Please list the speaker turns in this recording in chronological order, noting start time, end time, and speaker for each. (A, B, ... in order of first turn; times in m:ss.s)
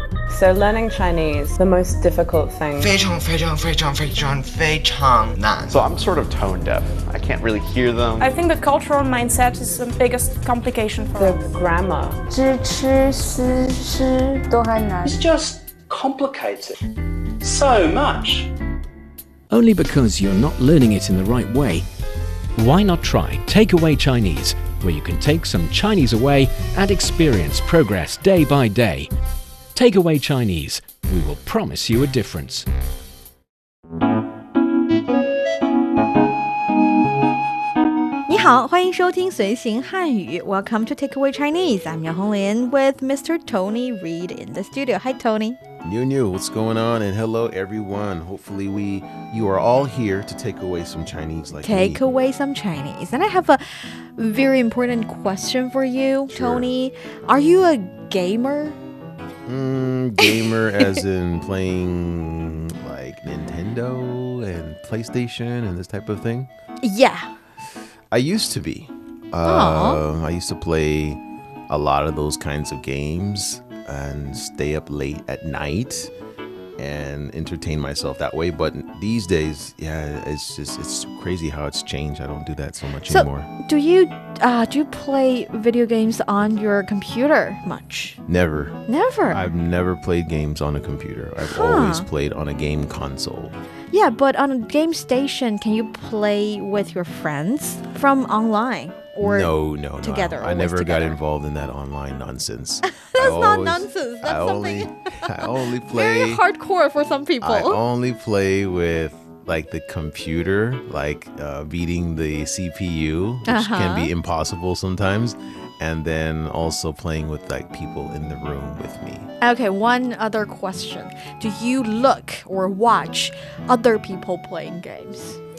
0:00.3-0:03.0 A
0:02.8-0:05.7 B
0:05.7-0:08.3 C
0:08.2-0:11.4 D
0:08.2-0:08.6 A
0:11.1-0:12.2 A
0:12.3-0:15.2 E
0:15.0-0:16.8 F
0:17.4-0:18.5 F
0:19.5-0:21.8 G
0:22.6-0:29.1 G
0:29.7-0:32.6 G
0:38.3-0:45.6 H
0:45.8-0:52.0 I
0:51.6-0:58.8 H
0:56.3-0:56.7 I
0:59.4-1:06.5 I
1:00.2-1:01.0 H
1:06.8-1:07.3 H
1:08.1-1:16.1 I
1:09.4-1:10.0 H
1:16.8-1:23.5 I
1:23.1-1:28.2 H
1:28.3-1:28.8 I
1:28.9-1:29.4 H
1:29.3-1:33.6 I
1:31.4-1:32.1 H
1:33.9-1:41.2 H
1:39.2-1:46.4 I
1:43.0-1:45.3 H
1:45.8-1:47.8 H
1:47.4-1:59.3 I
1:53.4-1:54.1 H
1:59.4-2:05.4 H